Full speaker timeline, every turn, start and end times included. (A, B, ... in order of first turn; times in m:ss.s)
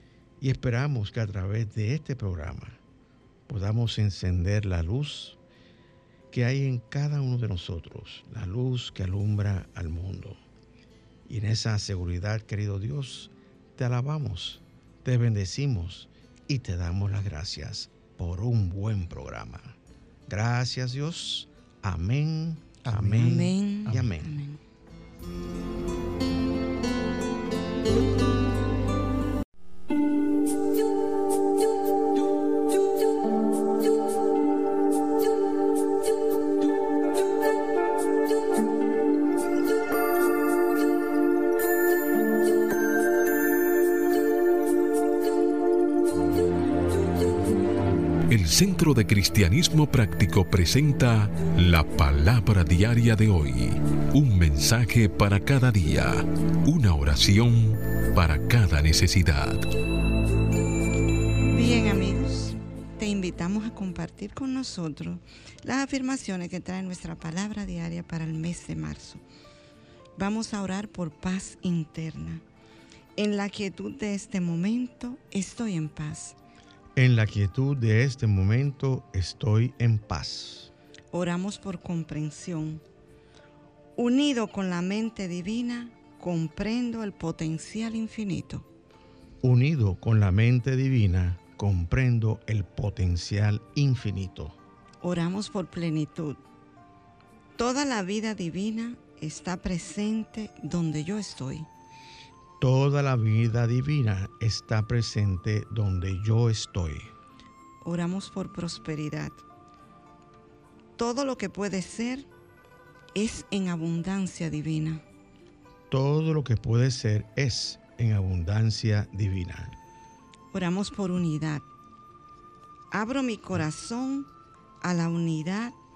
0:00.4-0:02.8 A
0:03.5-0:05.4 A
0:06.3-0:10.4 A
0:11.3-0:19.8 A
0:20.3-0:24.3 A
0:23.0-0:24.6 B
0:48.3-0:59.7 C
1:01.5-1:09.2 B
1:10.2-1:12.4 B
1:13.2-1:16.4 B
1:17.0-1:20.7 A
1:21.1-1:22.8 B
1:24.0-1:28.7 B
1:29.4-1:34.6 A
1:35.0-1:36.4 B
1:37.6-1:41.7 B
1:42.6-1:47.1 A
1:47.8-1:49.4 B
1:51.0-1:52.3 B
1:53.2-1:55.0 B
1:55.9-1:59.8 A
2:00.5-2:01.6 B
2:02.9-2:04.3 B
2:04.8-2:05.8 B